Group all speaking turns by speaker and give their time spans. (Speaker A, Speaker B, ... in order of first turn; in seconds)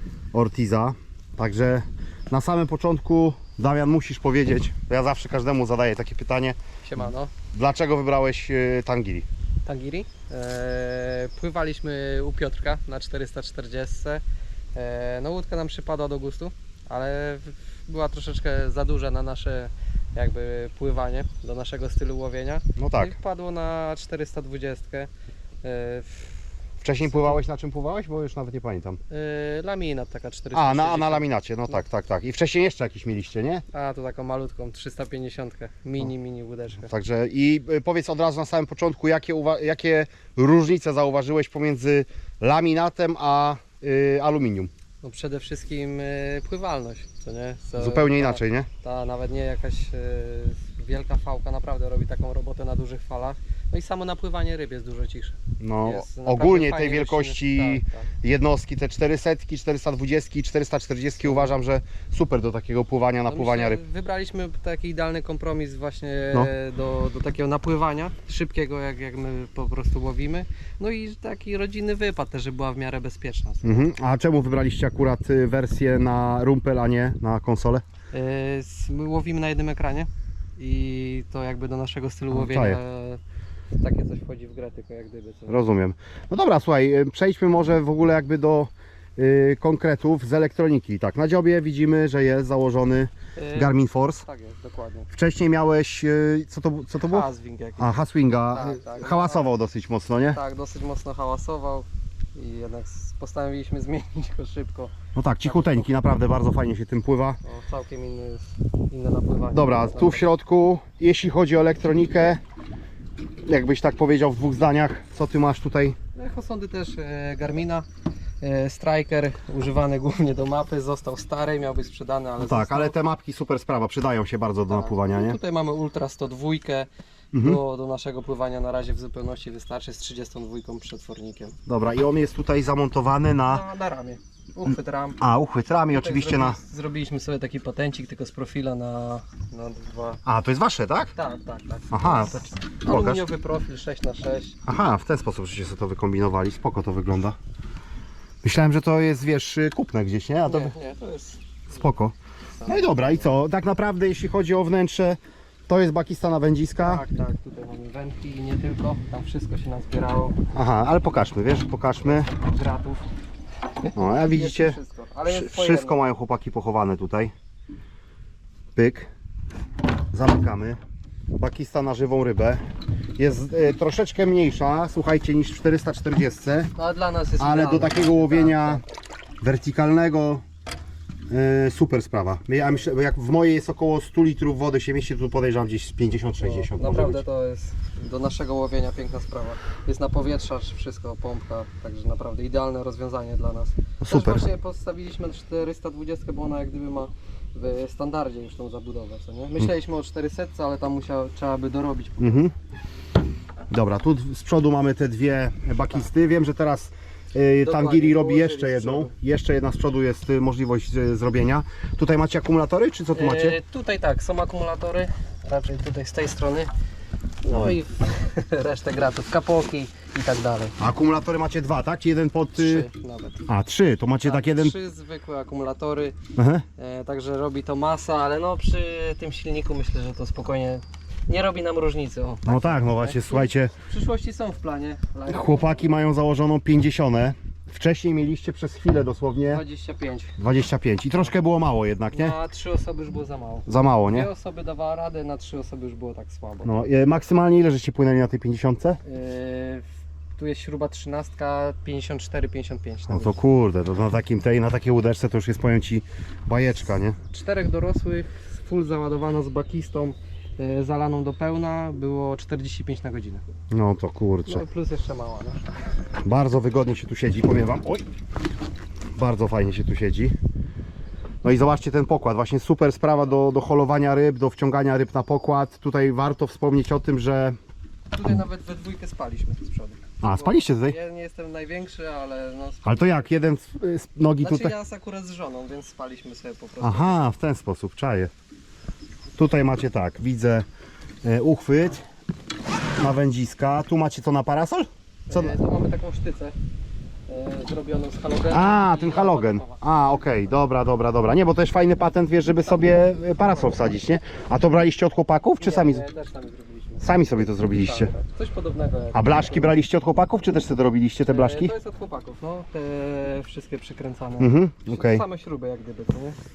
Speaker A: 0.3-6.6, 7.5-9.3, 22.8-23.1, 26.8-29.0, 30.5-33.6, 36.8-44.7, 47.7-48.7, 55.6-63.8, 73.6-77.8, 82.3-82.8, 85.5-94.2, 95.1-100.4, 105.1-107.4, 109.5-112.4, 113.4-116.0, 122.4-125.4, 127.3-127.6, 131.7-133.6, 135.2-136.6, 140.2-141.1, 141.9-143.2, 144.7-147.3, 148.4-150.7, 151.7-152.1, 152.7-157.0, 160.5-162.3, 163.9-167.3, 168.7-169.1, 170.1-170.8, 171.4-172.6, 173.2-176.7, 177.4-178.8, 179.4-180.4, 181.3-187.2, 194.0-194.4, 202.2-202.5, 203.7-213.6, 217.5-217.8, 220.8-222.9, 223.5-224.8, 226.3-226.6, 232.4-233.7, 235.3-239.6, 240.4-242.3, 243.7-244.3, 246.6-249.0, 253.1-257.2, 263.7-264.6, 266.2-268.0, 269.1-270.4, 271.4-277.6, 280.2-280.9, 282.9-284.8, 286.8-288.3, 289.3-290.6, 291.2-292.0, 293.0-295.6, 298.5-306.0, 307.0-308.1, 309.1-311.7, 314.4-315.2
Speaker B: 6.8-7.3, 9.6-14.2, 14.7-25.1, 25.6-26.4, 27.0-27.4, 29.1-31.8, 33.7-36.9, 45.0-58.1, 61.2-61.5, 63.3-73.8, 78.1-83.2, 83.8-85.6, 93.3-95.1, 97.0-98.0, 98.5-99.5, 100.3-104.9, 105.4-105.9, 107.4-110.3, 116.1-117.8, 118.4-122.9, 124.7-131.6, 133.4-135.2, 135.9-140.2, 141.1-144.6, 150.4-151.4, 152.6-153.2, 156.8-160.4, 162.0-163.1, 163.8-166.0, 176.7-178.8, 186.4-202.4, 207.6-209.1, 213.1-216.7, 217.4-220.8, 222.6-223.5, 224.2-226.2, 226.8-235.8, 239.5-240.3, 242.1-246.8, 249.0-249.8, 250.3-253.4, 257.3-263.4, 264.4-265.6, 278.1-283.3, 284.4-287.2, 295.3-296.6, 297.3-299.8, 305.6-309.7, 311.3-316.4